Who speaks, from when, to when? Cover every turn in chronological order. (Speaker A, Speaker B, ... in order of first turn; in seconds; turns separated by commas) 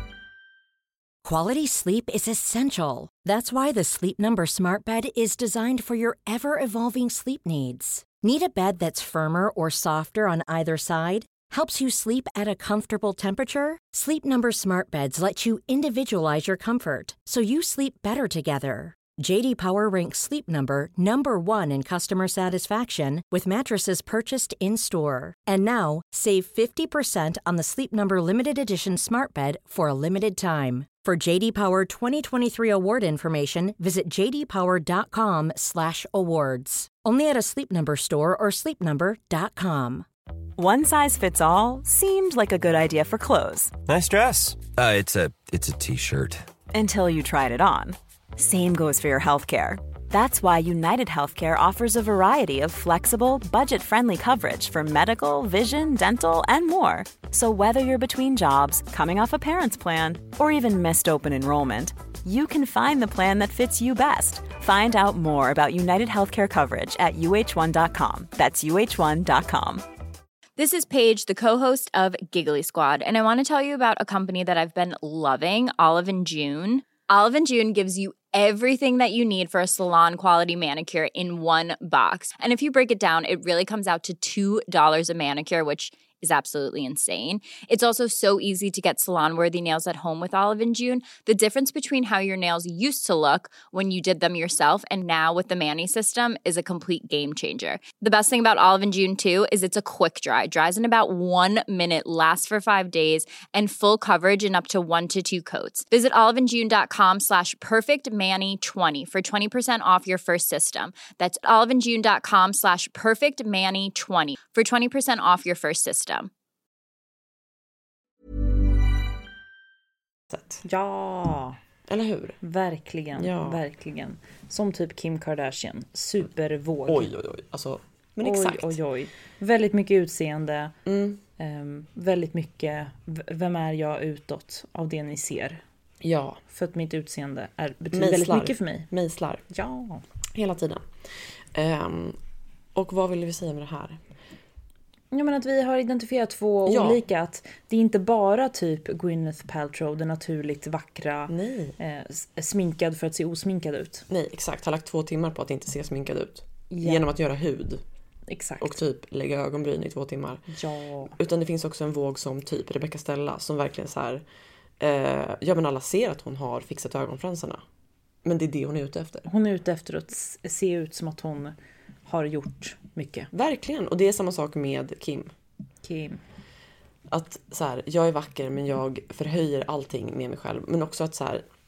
Speaker A: 1.2-40.1, Speaker B: 40.6-43.8, Speaker C: 43.9-46.5, Speaker B: 46.7-69.8, Speaker D: 70.6-116.3, Speaker E: 120.3-120.6, Speaker F: 120.6-121.6, Speaker E: 121.9-122.4, Speaker F: 122.4-127.1, Speaker E: 123.2-123.6, Speaker E: 126.9-128.8, Speaker F: 128.2-130.8, Speaker E: 130.9-131.2, Speaker F: 131.4-135.6, Speaker E: 136.0-136.4, Speaker F: 136.5-138.9, Speaker E: 137.9-139.4, Speaker F: 139.5-140.0, Speaker E: 140.3-140.9, Speaker E: 141.5-142.2, Speaker E: 142.8-144.0, Speaker F: 145.1-154.1, Speaker E: 146.7-147.0, Speaker E: 151.3-151.8, Speaker E: 154.1-157.8, Speaker F: 156.7-157.0, Speaker F: 158.3-158.8, Speaker E: 158.6-160.5, Speaker F: 160.5-161.1, Speaker E: 161.1-164.2, Speaker E: 164.8-167.6, Speaker E: 168.2-169.3, Speaker F: 169.3-171.5, Speaker F: 172.1-173.3, Speaker E: 173.3-175.3, Speaker F: 175.8-176.2, Speaker E: 177.1-181.4